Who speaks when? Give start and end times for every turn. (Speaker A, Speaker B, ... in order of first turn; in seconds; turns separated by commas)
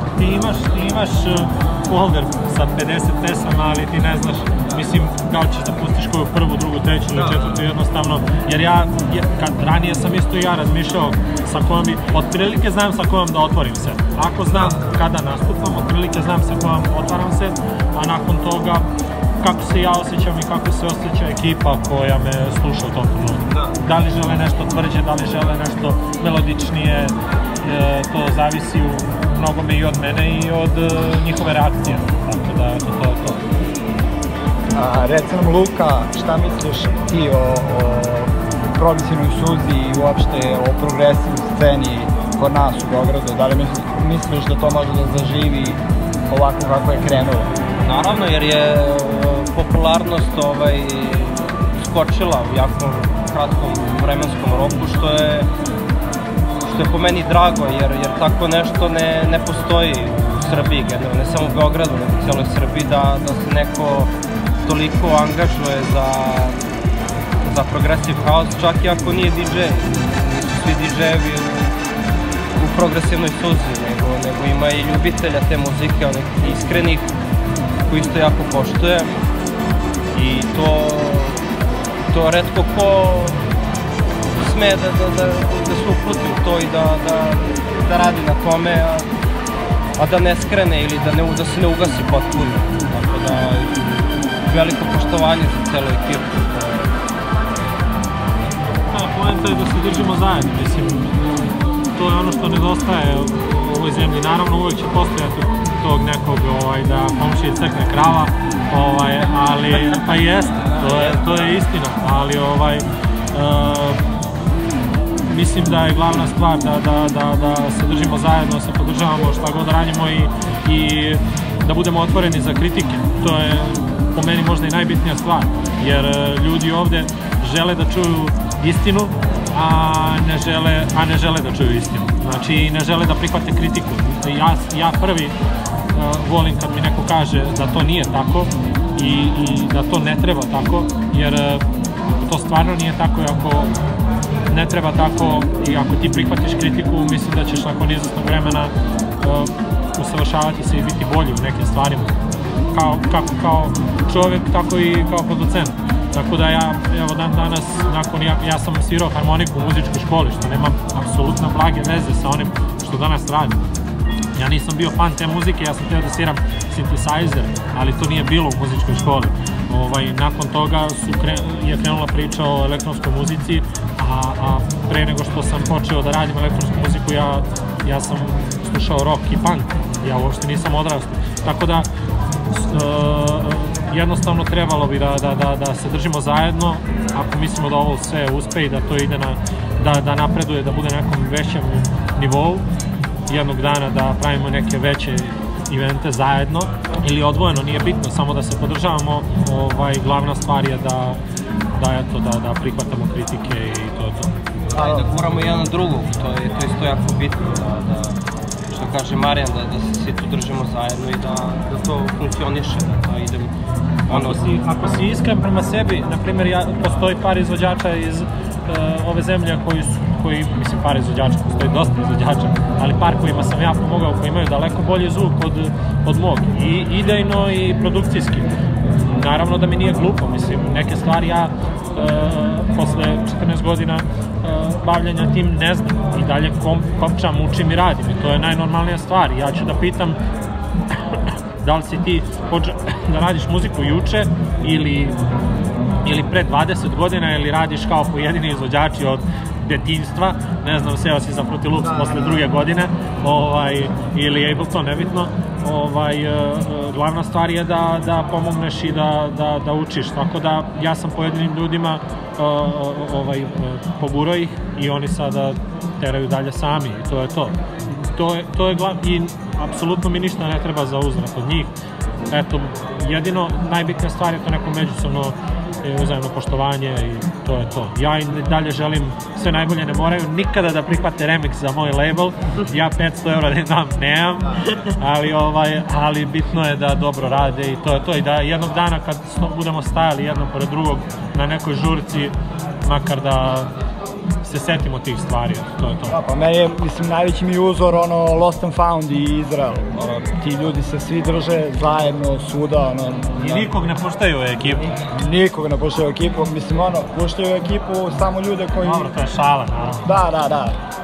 Speaker A: 0.2-18.9, Speaker B: 7.1-7.7, Speaker B: 14.5-15.0, Speaker A: 19.4-33.4, Speaker B: 23.5-23.8, Speaker C: 34.7-47.5, Speaker B: 47.8-55.5, Speaker B: 56.6-64.1, Speaker B: 64.6-66.6, Speaker B: 67.4-71.7, Speaker B: 72.6-77.1, Speaker B: 77.9-79.2, Speaker B: 80.1-81.4, Speaker B: 82.1-83.4, Speaker B: 84.4-89.1, Speaker B: 90.0-96.9, Speaker A: 98.9-114.0, Speaker B: 110.6-111.6, Speaker A: 115.3-135.3, Speaker A: 135.9-143.7, Speaker A: 144.5-152.2, Speaker A: 152.7-163.6, Speaker A: 164.3-181.9, Speaker A: 182.5-192.6, Speaker A: 193.3-201.2, Speaker A: 201.8-204.3, Speaker B: 204.7-208.2, Speaker C: 204.7-205.1, Speaker B: 208.7-213.5, Speaker B: 214.1-214.6, Speaker A: 214.1-228.5, Speaker A: 229.1-240.2, Speaker A: 241.6-245.2, Speaker A: 246.0-271.7, Speaker C: 251.8-252.4, Speaker A: 272.3-293.7, Speaker A: 294.4-296.2, Speaker C: 296.1-303.7, Speaker A: 303.4-304.9, Speaker C: 305.1-309.1, Speaker A: 308.8-310.1, Speaker C: 310.0-310.8